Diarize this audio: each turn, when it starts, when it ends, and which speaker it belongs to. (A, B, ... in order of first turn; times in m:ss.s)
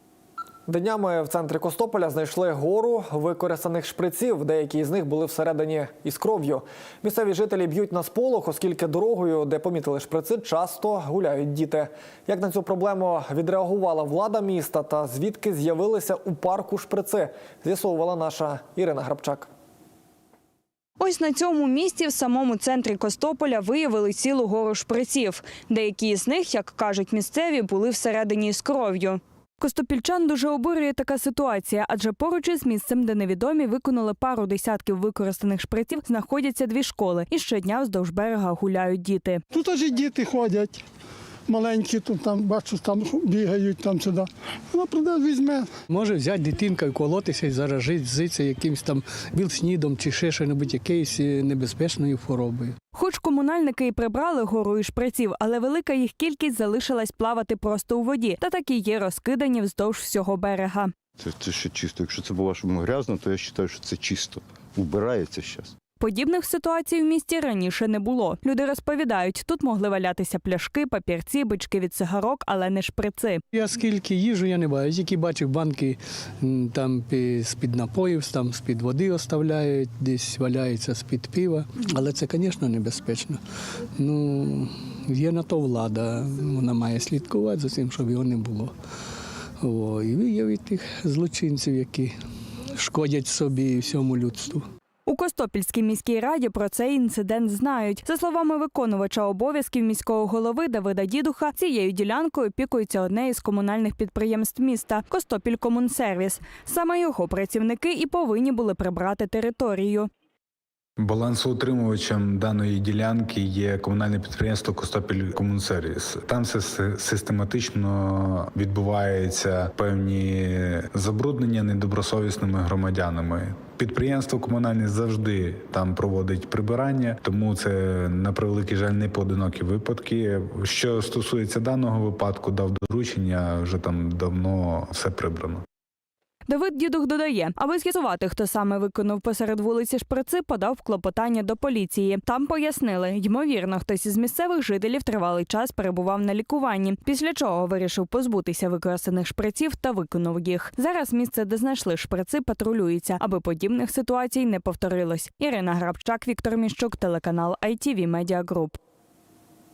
0:00.7-0:19.5 A
0:21.0-0:39.4 B
0:39.5-0:40.8 C
0:41.5-0:45.7 C
0:45.9-0:52.8 D
0:52.9-1:00.9 B
1:01.2-1:05.7 E
1:06.0-1:13.4 B
1:13.5-1:23.4 D
1:24.0-1:28.8 D
1:29.6-1:32.2 D
1:32.8-1:34.7 D
1:35.1-1:50.1 B
1:51.0-2:15.6 F
2:16.5-2:38.8 B